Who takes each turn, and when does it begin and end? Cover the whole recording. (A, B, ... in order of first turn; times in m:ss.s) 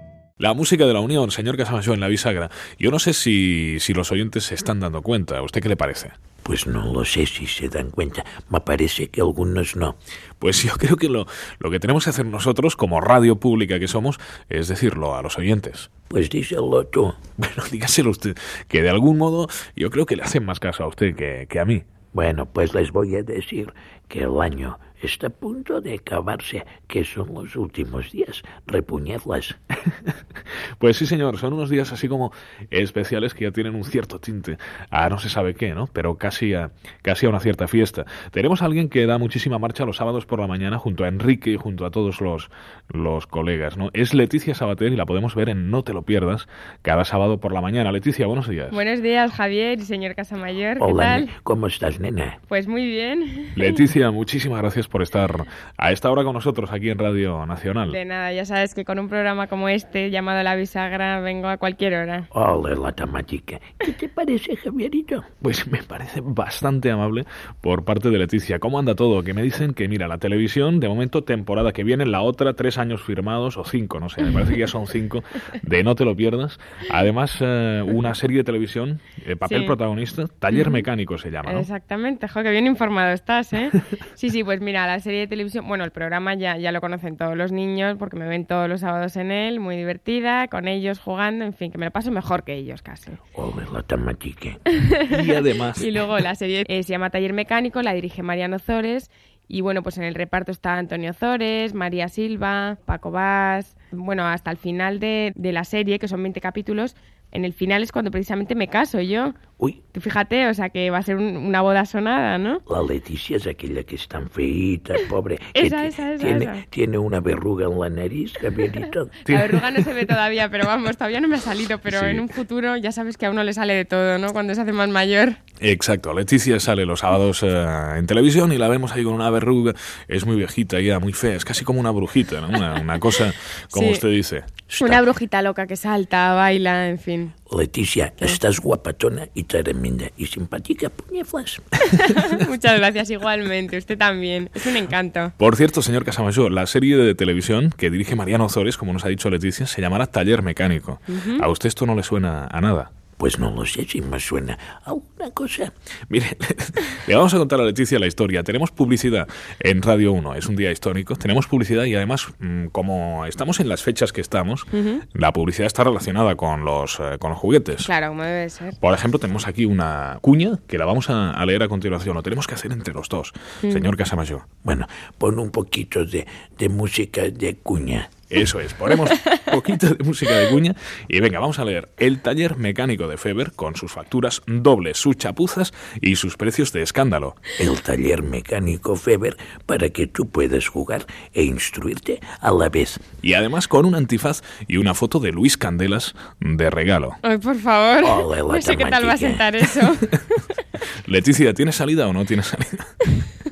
0:00.4-0:06.2 A
0:06.4-0:10.0 B
0:10.4-0:15.9 A
0:16.1-0:17.2 B
0:17.4-0:21.8 A
0:22.1-0:29.6 B
0:30.8-0:48.8 A
0:48.7-0:51.3 C
0:50.8-0:52.4 B
0:52.5-0:53.8 C
0:53.5-0:58.0 A
0:57.9-1:02.3 C
1:02.3-1:05.3 B
1:05.4-1:21.7 A
1:19.5-1:19.8 C
1:20.5-1:20.8 C
1:21.4-1:33.2 C
1:33.4-1:34.6 B
1:34.7-1:49.4 C
1:35.1-1:36.0 A
1:49.9-1:52.6 C
1:52.7-1:59.2 B
1:55.6-1:56.7 C
1:59.2-1:59.9 A
1:59.3-2:05.4 C
2:01.9-2:02.2 A
2:05.6-2:14.5 A
2:13.7-2:14.0 C
2:14.7-2:15.0 B
2:14.8-2:17.3 C
2:17.5-2:21.6 B
2:21.8-2:25.3 C
2:25.4-2:32.9 A
2:31.1-2:31.5 C
2:33.2-2:35.7 B
2:36.1-2:47.9 A
2:44.7-2:45.0 C
2:47.8-2:48.8 C
2:48.8-2:54.4 A
2:53.6-2:53.9 C
2:54.6-2:58.1 B
2:58.3-3:07.5 A
3:07.6-3:13.1 B
3:13.2-3:17.2 A
3:17.2-3:20.6 C
3:18.0-3:19.6 B
3:21.1-3:22.9 A